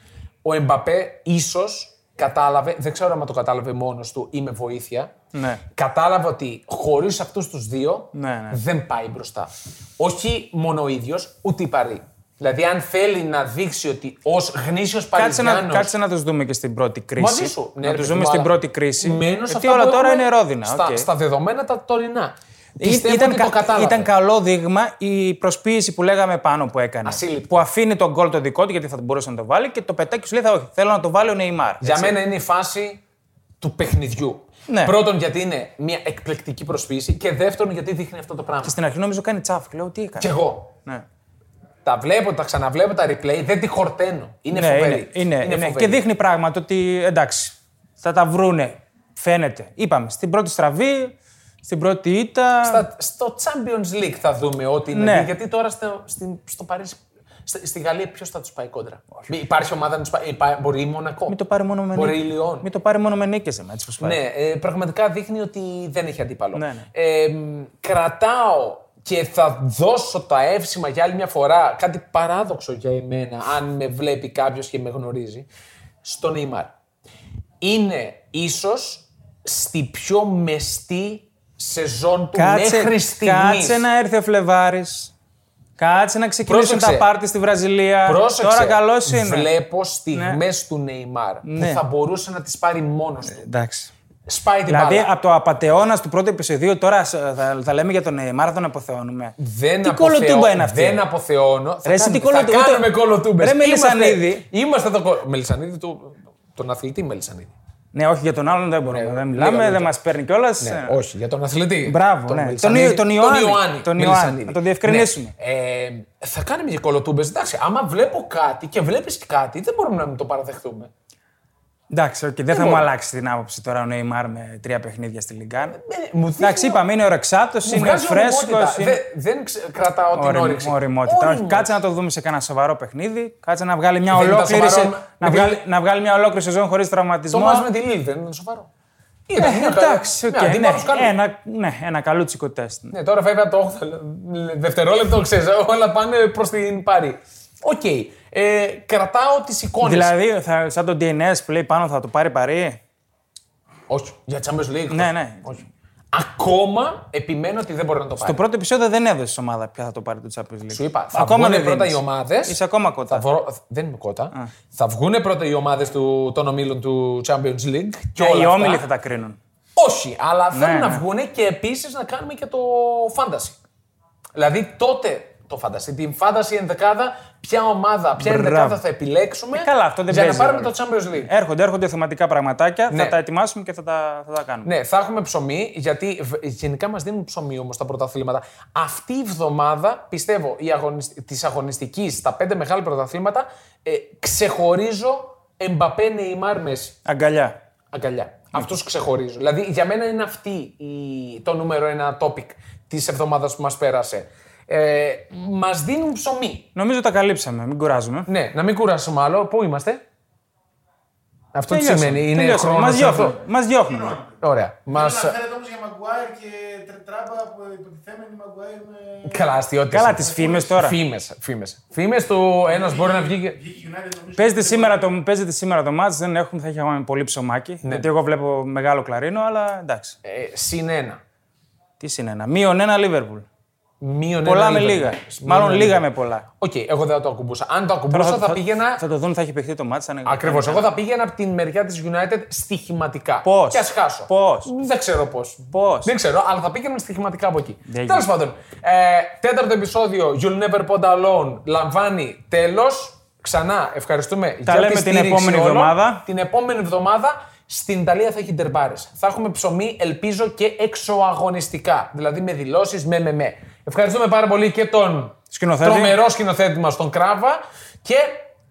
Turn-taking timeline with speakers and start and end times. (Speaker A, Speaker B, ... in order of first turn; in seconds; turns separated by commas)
Speaker A: 0.4-5.1, Speaker B: 5.3-5.6, Speaker A: 5.7-15.9, Speaker B: 8.1-8.6, Speaker B: 15.1-21.1, Speaker A: 17.2-24.1, Speaker B: 22.8-32.2, Speaker A: 27.1-27.5, Speaker A: 31.8-33.0, Speaker A: 33.6-38.7, Speaker B: 34.7-35.0, Speaker B: 38.6-40.3, Speaker A: 40.2-40.7, Speaker A: 41.9-46.0, Speaker B: 44.5-52.9, Speaker A: 52.6-61.4, Speaker B: 54.9-55.3, Speaker B: 61.3-64.2, Speaker A: 61.9-62.7, Speaker A: 64.0-75.5, Speaker B: 66.5-66.9, Speaker A: 76.0-76.7, Speaker A: 77.6-83.8, Speaker B: 82.3-85.1, Speaker B: 85.8-89.5, Speaker A: 86.5-87.1, Speaker A: 88.1-93.4, Speaker B: 90.1-90.4, Speaker B: 91.4-91.8, Speaker B: 93.3-93.9, Speaker A: 94.3-95.1, Speaker B: 94.7-101.0, Speaker A: 99.4-107.5, Speaker B: 101.8-104.4, Speaker B: 107.9-111.0, Speaker A: 108.9-109.9, Speaker A: 110.6-120.9, Speaker B: 111.8-115.3, Speaker B: 121.9-125.8, Speaker A: 122.5-122.9, Speaker A: 125.7-126.8, Speaker B: 126.4-129.0, Speaker A: 127.6-131.8, Speaker B: 130.1-137.7, Speaker A: 134.1-135.6, Speaker A: 137.3-138.7, Speaker A: 139.3-141.2, Speaker B: 139.4-142.9, Speaker A: 142.9-150.1, Speaker B: 149.8-152.8, Speaker A: 153.9-158.4, Speaker B: 154.9-155.5, Speaker B: 158.2-163.2, Speaker A: 160.7-162.6, Speaker A: 163.1-168.9, Speaker B: 168.2-169.4, Speaker A: 169.8-173.6, Speaker B: 170.5-171.0, Speaker A: 174.3-181.3, Speaker B: 178.2-178.8, Speaker B: 179.5-184.7, Speaker A: 182.9-183.2, Speaker A: 184.6-197.0, Speaker B: 197.1-197.6, Speaker A: 197.9-206.7, Speaker B: 206.7-208.3, Speaker A: 208.3-210.0, Speaker A: 211.5-213.4, Speaker B: 211.7-214.2, Speaker C: 213.9-214.4, Speaker A: 214.4-215.4, Speaker C: 214.9-219.6, Speaker A: 219.2-223.6, Speaker B: 219.9-221.0, Speaker C: 220.1-220.7, Speaker C: 222.7-225.1, Speaker B: 224.4-230.2, Speaker A: 227.8-228.1, Speaker A: 230.2-231.2, Speaker B: 232.0-233.4, Speaker A: 234.0-236.1, Speaker B: 234.4-236.5, Speaker A: 236.6-239.0, Speaker B: 238.1-241.0, Speaker A: 240.2-268.5, Speaker B: 243.4-244.7, Speaker B: 245.7-246.1, Speaker B: 247.9-248.3, Speaker B: 254.7-256.2, Speaker B: 265.5-266.2